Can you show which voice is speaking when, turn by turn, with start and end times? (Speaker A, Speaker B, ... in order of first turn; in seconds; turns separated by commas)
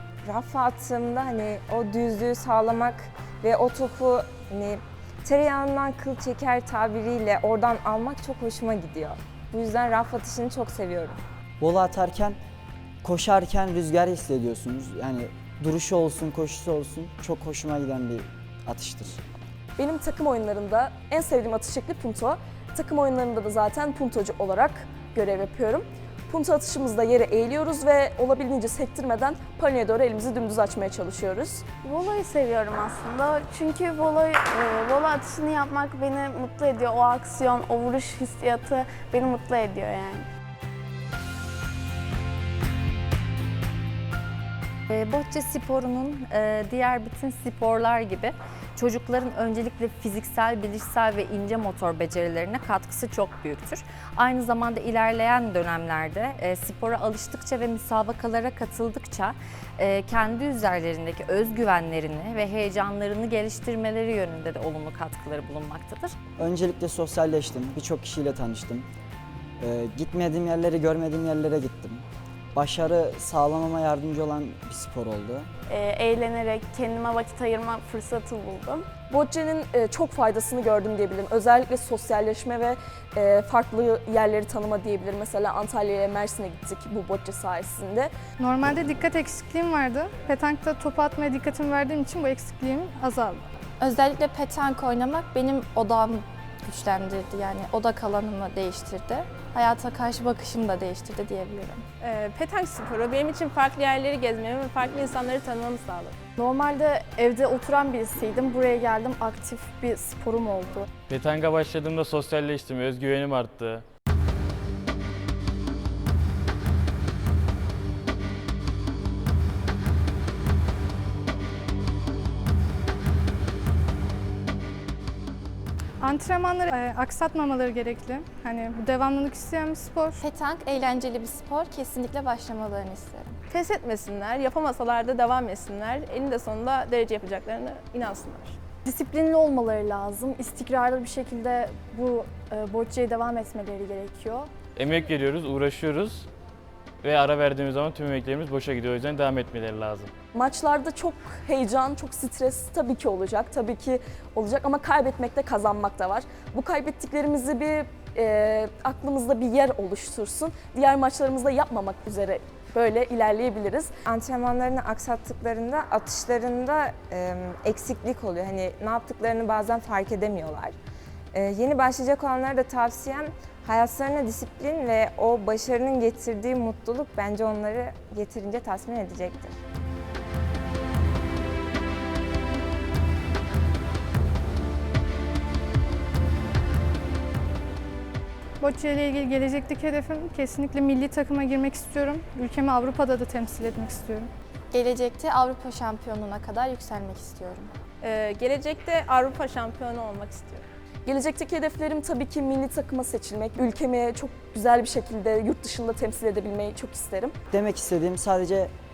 Speaker A: 0.2-11.2, Speaker B: 11.6-12.4, Speaker B: 13.0-19.2, Speaker C: 19.8-31.6, Speaker D: 31.8-40.3, Speaker E: 44.9-66.1, Speaker B: 66.4-68.9, Speaker B: 69.6-75.5, Speaker D: 75.7-79.0, Speaker C: 79.1-88.1, Speaker F: 88.4-93.4, Speaker G: 93.8-101.8, Speaker H: 102.0-106.2, Speaker I: 106.4-110.8, Speaker J: 111.1-113.9, Speaker F: 126.0-130.1, Speaker G: 130.2-133.4, Speaker H: 133.5-138.6, Speaker I: 138.8-144.5, Speaker J: 144.8-146.3, Speaker J: 147.0-150.1, Speaker C: 150.3-163.9, Speaker A: 164.1-170.8, Speaker A: 171.3-179.6, Speaker F: 188.6-194.3, Speaker G: 194.7-197.7, Speaker H: 198.0-200.7, Speaker C: 201.1-207.3, Speaker B: 207.5-208.7